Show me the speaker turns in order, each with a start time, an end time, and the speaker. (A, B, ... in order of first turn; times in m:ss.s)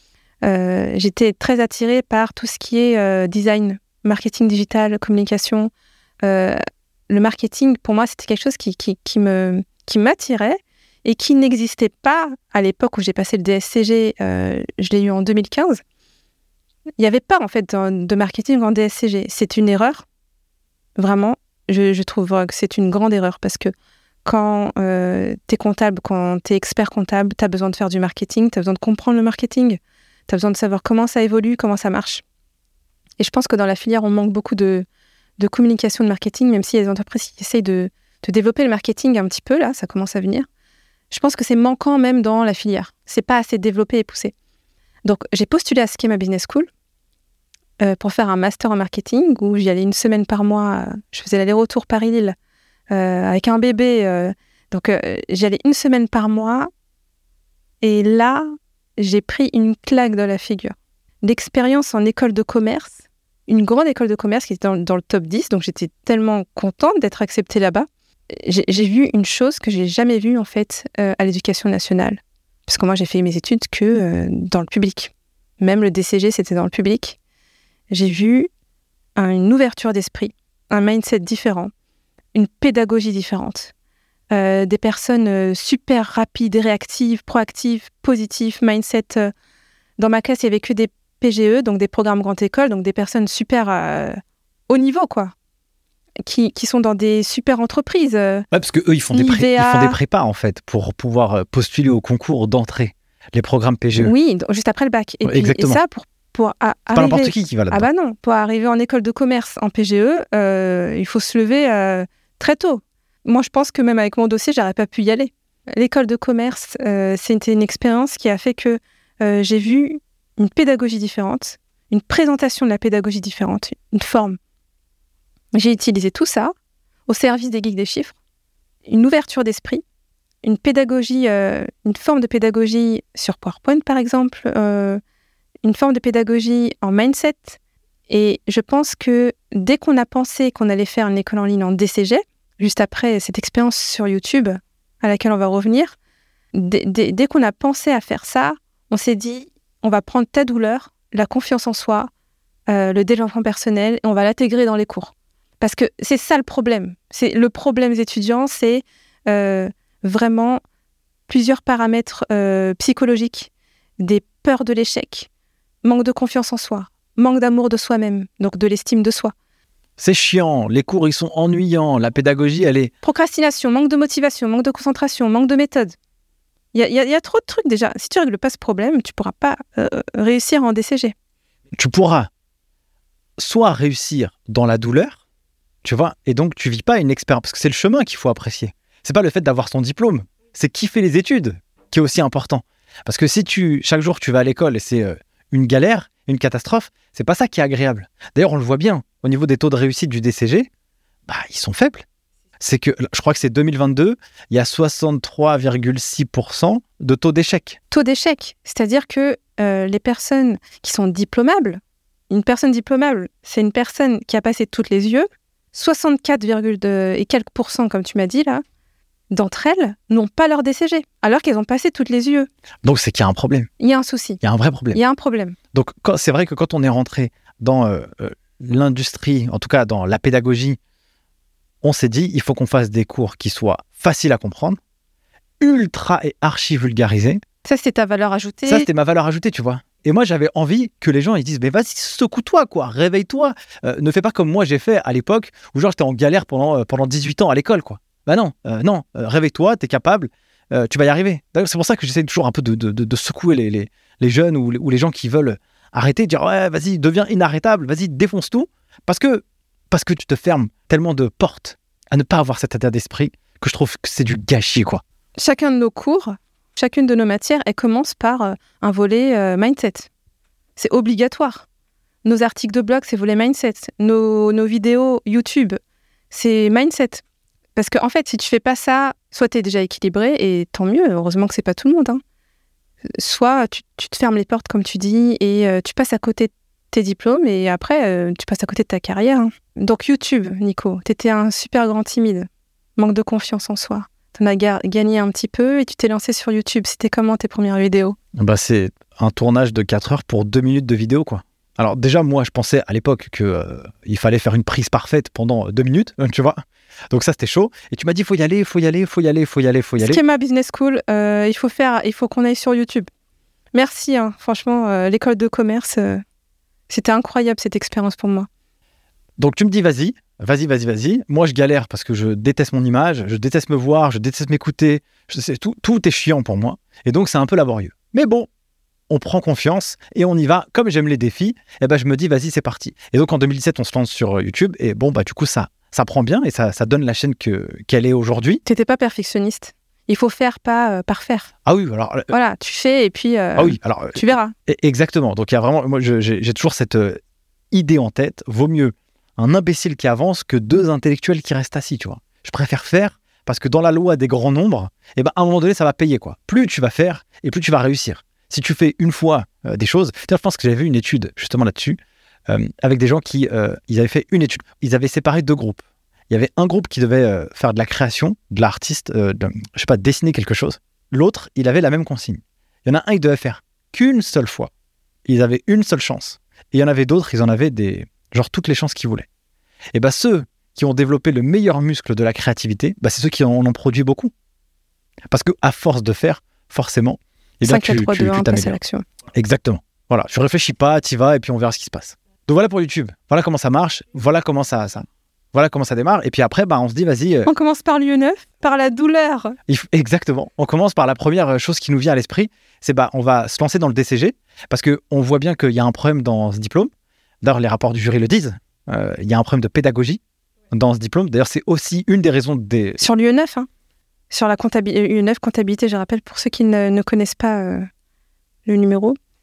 0:00.4-0:05.7 A
0:06.2-0:15.8 A
0:17.0-0:20.1 A
0:21.0-0:23.7 A
0:24.2-0:32.2 A
0:33.2-0:34.9 A
0:35.4-0:40.5 A
0:41.1-0:44.3 A
0:45.0-0:46.7 A
0:47.8-0:52.4 A
0:52.9-0:56.7 A
0:57.8-0:58.5 A
0:59.0-1:03.0 A
1:03.5-1:17.2 A
1:17.9-1:18.5 A
1:19.2-1:21.7 A
1:22.3-1:23.7 A
1:24.3-1:29.3 A
1:30.0-1:34.2 A
1:34.7-1:35.3 A
1:36.2-1:38.5 A
1:38.5-1:44.1 B
1:39.1-1:40.0 A
1:44.0-2:04.4 A
1:45.2-1:45.8 B
1:46.9-1:47.9 B
2:05.5-2:06.5 A
2:07.1-2:08.2 A
2:08.9-2:09.8 A
2:10.4-2:15.0 A
2:15.6-2:26.0 A
2:26.5-2:32.1 A
2:32.7-2:40.6 A
2:41.3-2:45.3 A
2:45.8-2:49.3 A
2:50.0-2:52.9 B
2:53.0-2:56.0 A
2:56.7-3:01.2 A
3:01.8-3:02.3 B
3:03.4-3:05.2 B
3:05.8-3:20.7 B
3:21.3-3:22.1 B
3:22.6-3:27.8 B
3:27.9-3:38.6 A
3:39.3-3:42.5 A
3:42.8-3:43.7 B
3:43.8-3:44.4 A
3:44.4-3:45.0 B
3:44.9-3:45.6 A
3:45.7-3:50.8 B
3:51.8-3:54.8 B
3:55.6-3:57.4 B
3:57.6-3:58.9 A
3:58.6-4:25.0 B
4:25.4-4:30.1 A
4:30.8-4:31.7 A
4:32.2-4:35.8 A
4:36.3-4:37.2 A
4:37.8-4:42.2 A
4:43.2-4:58.2 A
4:58.4-5:06.6 B
5:07.1-5:10.2 B
5:10.0-5:13.1 A
5:13.7-5:16.2 A
5:16.9-5:18.5 A
5:19.4-5:28.5 B
5:29.1-5:38.6 B
5:38.7-5:41.5 A
5:41.7-5:42.3 B
5:42.3-5:44.5 A
5:43.6-5:47.2 B
5:47.7-6:14.7 B
6:15.3-6:19.3 B
6:19.9-6:24.3 B
6:25.3-6:28.8 B
6:27.6-6:29.0 A
6:29.3-6:37.5 B
6:37.5-6:39.6 A
6:39.7-6:46.9 B
6:47.4-6:53.0 B
6:53.0-6:53.7 A
6:54.3-6:57.9 A
6:58.7-6:59.2 A